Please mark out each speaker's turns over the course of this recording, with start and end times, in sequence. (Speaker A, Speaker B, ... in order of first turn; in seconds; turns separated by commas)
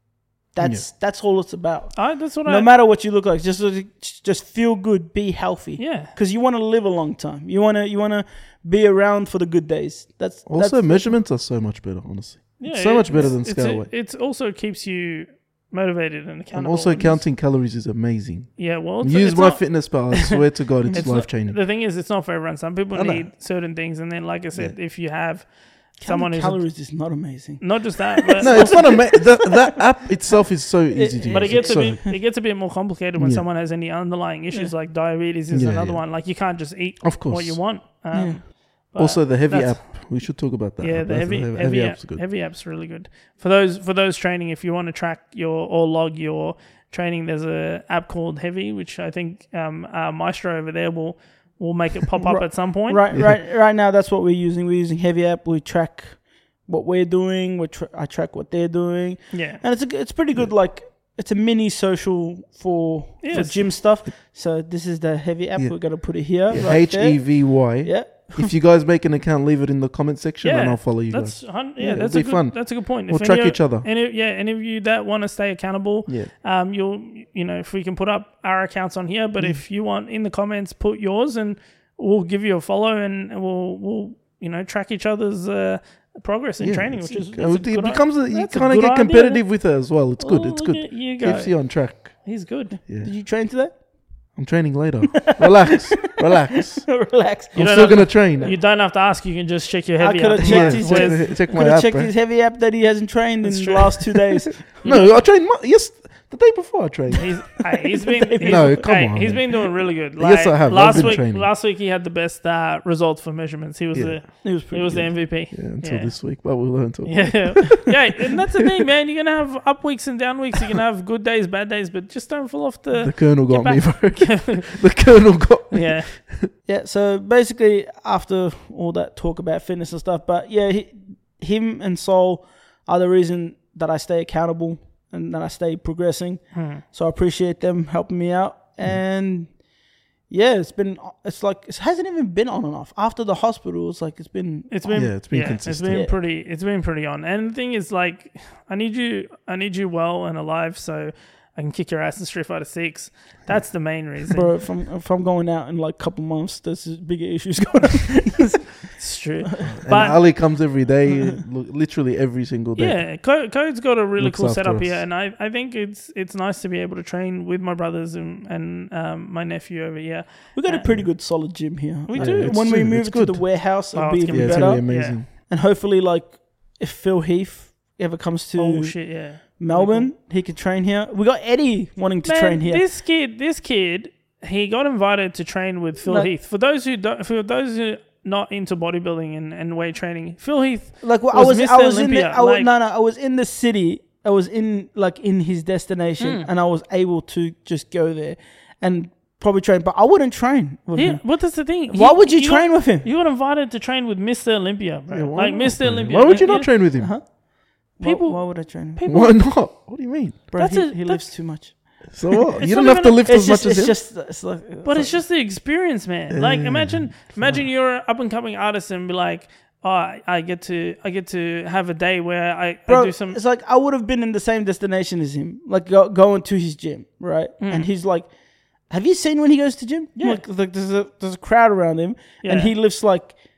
Speaker A: 0.5-11.2, Speaker B: 2.0-2.7, Speaker B: 5.8-6.1, Speaker C: 10.5-13.9, Speaker B: 12.6-17.2, Speaker C: 16.5-21.6, Speaker B: 18.6-26.8, Speaker C: 22.9-23.3, Speaker A: 26.0-29.8, Speaker B: 27.6-29.1, Speaker C: 28.4-32.0, Speaker A: 30.9-32.2, Speaker B: 31.2-40.2, Speaker C: 33.2-33.5, Speaker C: 35.5-36.2, Speaker C: 37.0-37.8, Speaker A: 38.1-38.4, Speaker C: 39.0-42.3, Speaker B: 40.8-53.0, Speaker A: 52.3-68.5, Speaker B: 59.3-59.6, Speaker B: 63.2-63.6, Speaker C: 63.3-63.7, Speaker C: 65.6-73.9, Speaker B: 70.4-92.8, Speaker C: 86.6-92.4, Speaker A: 92.8-93.7, Speaker C: 94.4-98.5, Speaker A: 95.2-98.0, Speaker B: 97.5-101.3, Speaker A: 100.0-104.8, Speaker C: 100.3-102.1, Speaker B: 103.4-104.2, Speaker C: 104.8-107.5, Speaker B: 104.8-105.2, Speaker B: 107.2-124.9, Speaker A: 107.7-108.9, Speaker C: 108.4-111.5, Speaker A: 110.9-111.2, Speaker C: 113.9-114.4, Speaker A: 114.4-115.2, Speaker C: 115.0-118.1, Speaker C: 123.0-126.5, Speaker B: 125.7-126.1, Speaker A: 126.7-139.6, Speaker B: 136.5-136.8, Speaker A: 140.3-146.2, Speaker B: 144.7-154.5, Speaker C: 144.9-146.1, Speaker A: 154.3-158.9, Speaker B: 158.9-160.2, Speaker A: 159.5-160.4, Speaker C: 159.7-163.2, Speaker B: 162.8-171.1, Speaker C: 164.2-165.1, Speaker A: 170.6-182.9, Speaker B: 172.1-172.6, Speaker C: 172.1-173.7, Speaker B: 173.9-175.2, Speaker C: 174.3-175.3, Speaker B: 178.6-180.1, Speaker B: 182.2-192.7, Speaker A: 186.1-186.3, Speaker A: 191.0-203.1, Speaker B: 196.2-196.5, Speaker B: 200.9-206.7, Speaker C: 205.1-207.1, Speaker A: 206.5-207.2, Speaker A: 207.9-209.0, Speaker B: 208.0-209.7, Speaker C: 209.1-210.5, Speaker A: 210.5-212.2, Speaker B: 210.6-211.4, Speaker C: 212.1-214.0, Speaker B: 212.6-213.3, Speaker A: 213.2-215.2, Speaker B: 214.8-223.4, Speaker C: 216.3-217.7, Speaker A: 222.9-228.3, Speaker B: 227.6-227.9, Speaker A: 228.8-233.4, Speaker B: 230.2-230.4, Speaker B: 232.4-232.7